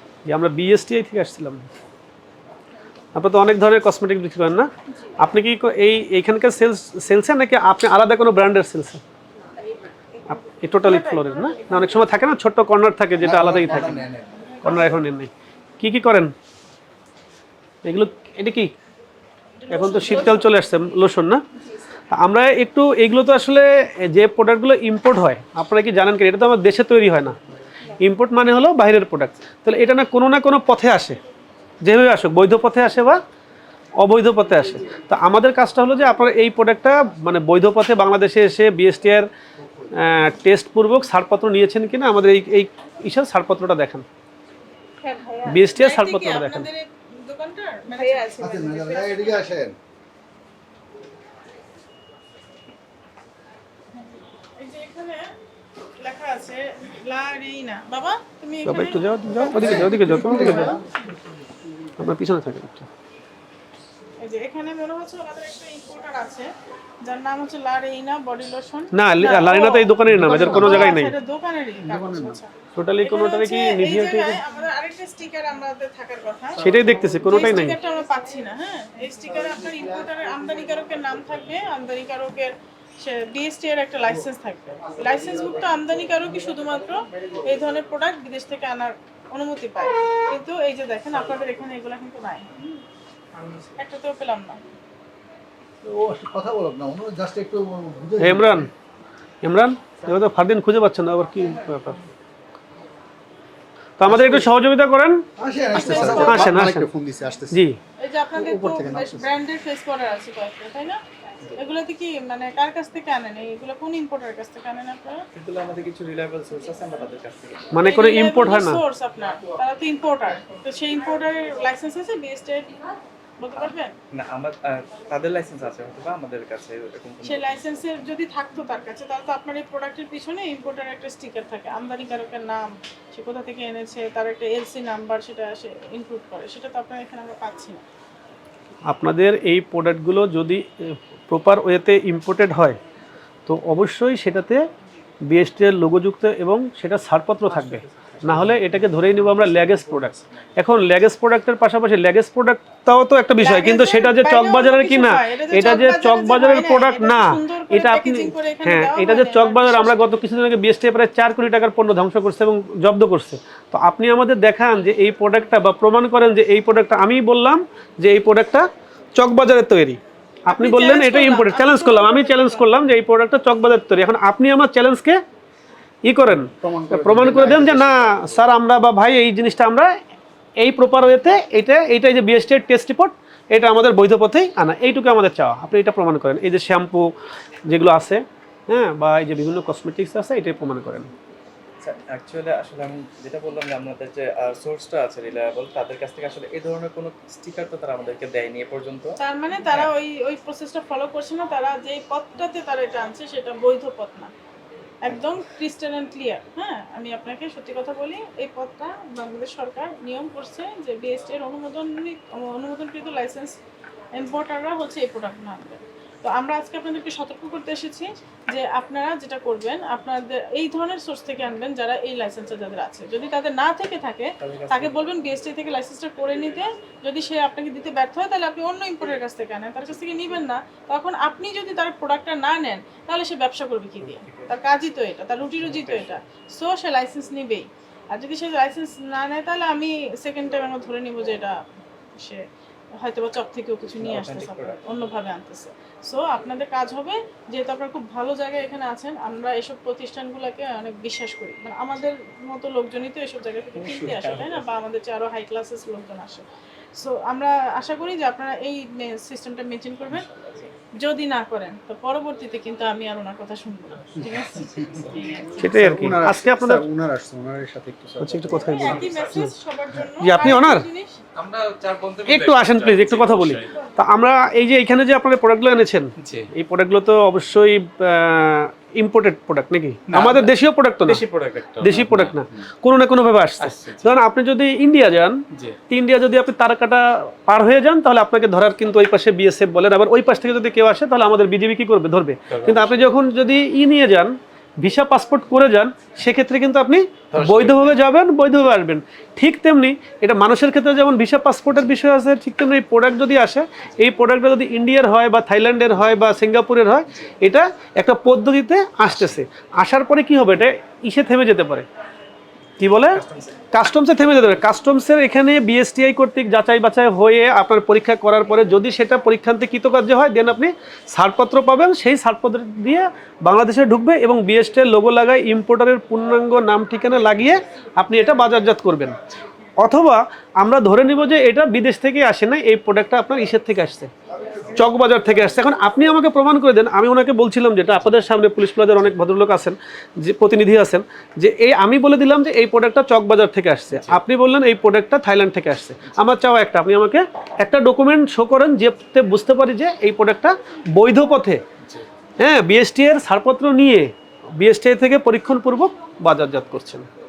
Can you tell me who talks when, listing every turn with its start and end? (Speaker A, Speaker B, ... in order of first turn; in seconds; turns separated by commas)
Speaker A: 0.2-1.6, Speaker A: 3.1-9.0, Speaker A: 10.3-14.1, Speaker B: 10.8-11.9, Speaker C: 13.2-14.4, Speaker A: 14.6-16.3, Speaker B: 14.7-14.9, Speaker A: 17.8-18.7, Speaker B: 19.7-20.4, Speaker A: 19.7-21.4, Speaker A: 22.1-27.4, Speaker A: 28.0-31.2, Speaker A: 31.8-33.2, Speaker A: 34.0-39.3, Speaker A: 39.9-44.0, Speaker B: 45.1-49.4, Speaker A: 45.4-46.6, Speaker C: 48.4-49.8, Speaker B: 54.6-55.3, Speaker B: 56.0-60.8, Speaker A: 58.6-60.8, Speaker C: 59.4-60.8, Speaker A: 62.0-62.9, Speaker B: 64.2-66.5, Speaker B: 67.0-92.8, Speaker A: 68.9-71.1, Speaker C: 70.1-71.0, Speaker C: 71.8-72.4, Speaker A: 72.7-74.4, Speaker A: 76.6-77.8, Speaker C: 76.7-77.4, Speaker B: 93.8-94.6, Speaker C: 95.8-98.7, Speaker A: 98.2-98.7, Speaker A: 99.4-102.0, Speaker A: 104.0-105.2, Speaker C: 104.0-104.5, Speaker C: 105.4-107.6, Speaker B: 105.7-106.7, Speaker A: 105.8-106.9, Speaker A: 107.5-107.8, Speaker B: 108.0-111.0, Speaker C: 108.3-109.3, Speaker B: 111.5-115.2, Speaker D: 115.3-117.7, Speaker A: 117.7-118.8, Speaker B: 117.8-122.8, Speaker B: 123.4-123.9, Speaker D: 124.1-127.8, Speaker B: 127.2-137.8, Speaker A: 138.9-142.8, Speaker A: 143.4-144.6, Speaker A: 145.3-175.2, Speaker B: 153.4-160.1, Speaker B: 170.5-172.7, Speaker A: 176.0-179.9, Speaker C: 176.3-178.4, Speaker A: 180.6-187.1, Speaker A: 187.7-191.1, Speaker D: 191.8-199.2, Speaker B: 199.2-204.3, Speaker B: 205.0-213.6, Speaker B: 214.1-241.6, Speaker D: 224.4-225.1, Speaker D: 234.1-234.6, Speaker D: 235.6-236.2, Speaker B: 243.0-256.4, Speaker D: 244.0-245.1, Speaker D: 253.8-254.6, Speaker B: 256.9-265.6, Speaker A: 265.6-266.8, Speaker C: 265.6-268.8, Speaker A: 268.2-269.5, Speaker B: 268.5-271.2, Speaker E: 268.7-269.5, Speaker A: 270.2-270.9, Speaker E: 271.4-273.8, Speaker A: 272.3-281.2, Speaker E: 276.2-276.5, Speaker E: 280.1-282.6, Speaker A: 281.8-311.9, Speaker E: 283.6-284.1, Speaker E: 285.5-285.8, Speaker E: 292.5-293.1, Speaker E: 297.3-297.9, Speaker E: 309.0-309.4, Speaker A: 312.8-329.2, Speaker E: 313.1-313.5, Speaker A: 329.8-334.1, Speaker A: 334.7-351.6, Speaker E: 343.9-344.2, Speaker E: 351.8-352.1, Speaker A: 352.4-357.1